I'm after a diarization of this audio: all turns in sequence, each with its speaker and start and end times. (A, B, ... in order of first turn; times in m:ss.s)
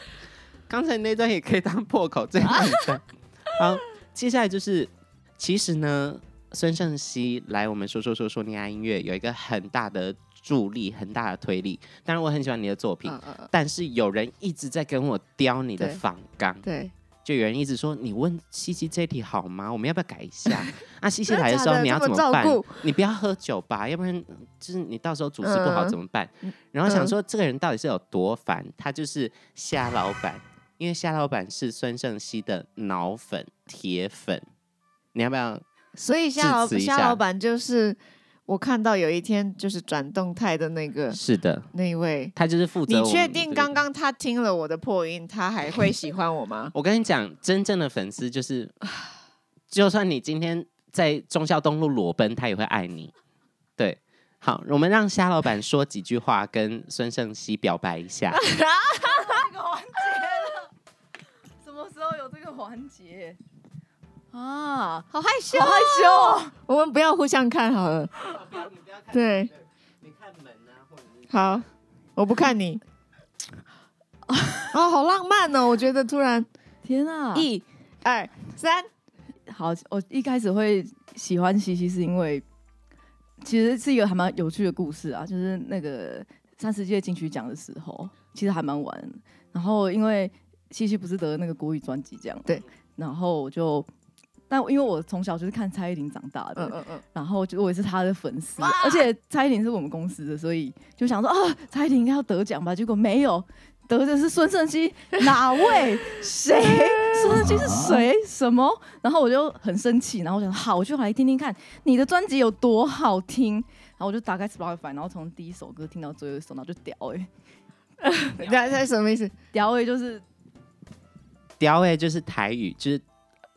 0:00.7-0:16.6 A
0:13.1-0:13.5 B
0:16.6-0:16.9 B
0:17.2-0:34.4 A
0:21.3-0:22.8 B
0:25.4-0:27.1 B
0:35.1-0:35.6 A
0:36.0-0:41.2 B
0:36.4-0:37.2 A
0:41.1-0:41.7 A
0:41.7-0:42.3 B
0:42.4-0:43.8 A
0:42.9-0:46.7 B
0:46.7-0:48.8 A
0:49.7-0:53.1 A
0:53.8-0:58.4 A
0:58.3-0:59.5 B
0:59.0-1:00.7 C
1:01.6-1:03.4 C
1:04.3-1:06.5 C
1:05.1-1:09.5 B
1:11.3-1:12.8 B
1:14.3-1:14.7 C
1:14.7-1:16.5 B
1:16.8-1:17.5 C
1:17.4-1:18.9 B
1:19.5-1:22.4 C
1:23.4-1:33.9 C
1:34.5-1:57.3 C
1:36.6-1:37.0 B
1:38.6-1:39.1 B
1:46.6-1:47.3 B
1:58.0-1:59.3 B
1:59.5-2:00.2 C
2:01.6-2:03.0 A